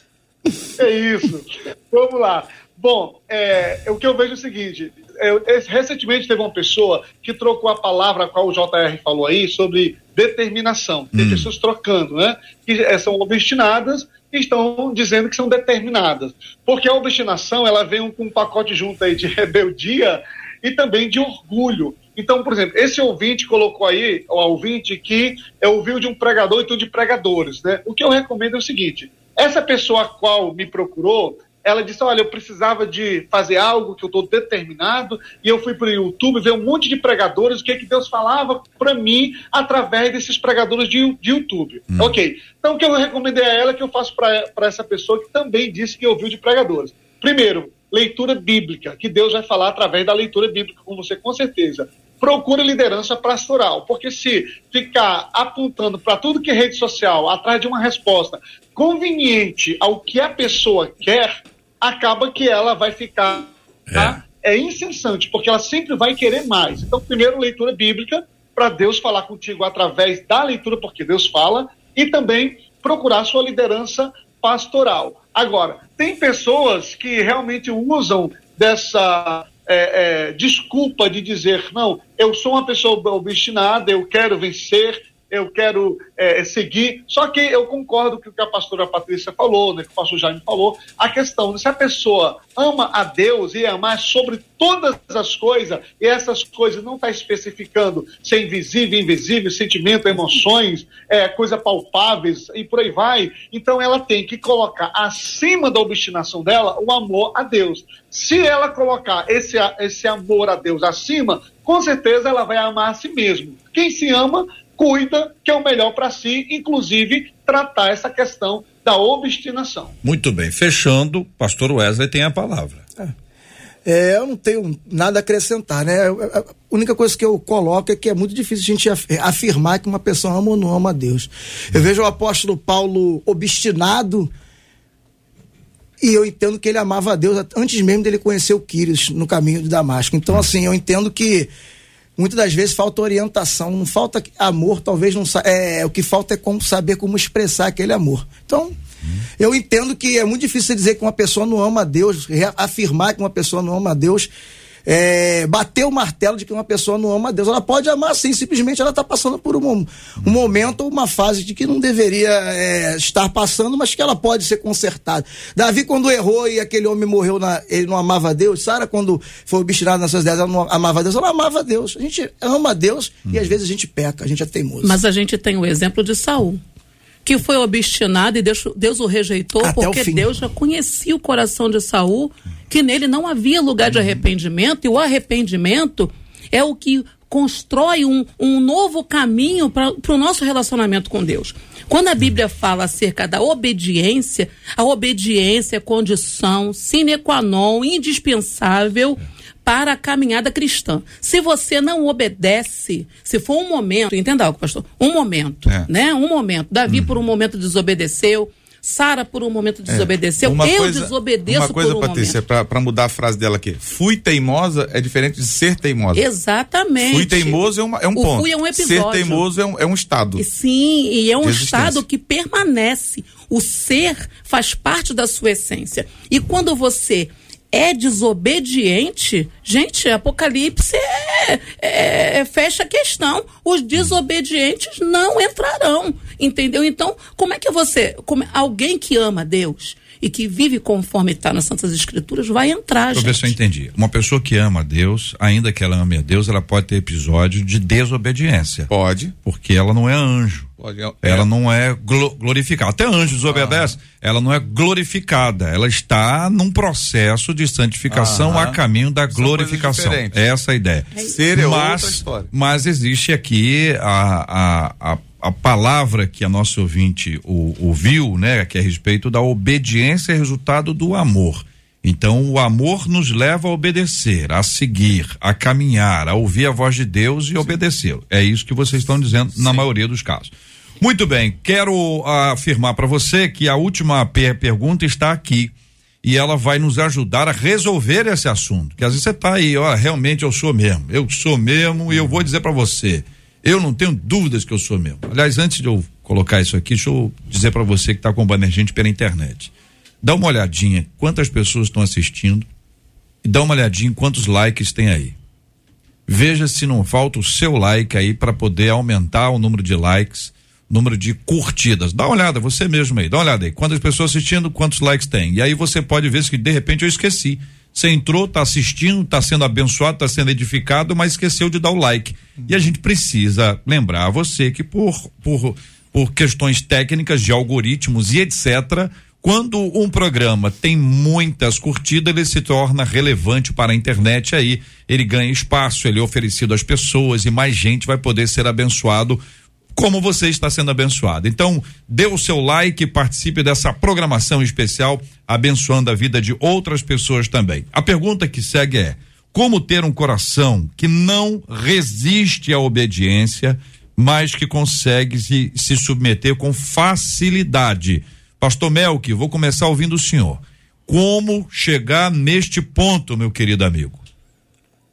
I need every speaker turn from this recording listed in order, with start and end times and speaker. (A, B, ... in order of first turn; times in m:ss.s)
0:00.8-1:59.9 A
0:11.1-0:11.5 B
0:41.9-0:42.2 B
1:03.9-1:04.2 B
2:00.0-2:02.8 B
2:03.8-2:14.3 C
2:16.0-2:21.5 C
2:22.2-2:28.8 C
2:29.4-2:34.3 C
2:34.9-2:55.0 C
2:53.3-2:53.6 B
2:54.8-2:56.6 D
2:57.2-3:32.4 D
2:59.6-3:00.3 C
3:26.9-3:27.1 B
3:29.9-3:36.2 E
3:36.1-3:37.6 D
3:37.0-3:40.4 E
3:38.1-3:39.4 D
3:40.4-4:03.6 D
3:41.4-3:42.0 E
4:03.1-4:08.9 B
4:08.9-4:09.3 E
4:09.4-4:10.7 B
4:10.8-4:11.5 E
4:11.2-4:45.7 B
4:13.5-4:14.0 E
4:18.1-4:18.8 E
4:19.3-4:20.4 E
4:21.1-4:22.5 E
4:46.2-4:59.7 B
5:00.2-5:02.7 B
5:03.4-5:05.4 B
5:06.3-5:39.4 B
5:40.0-6:04.2 B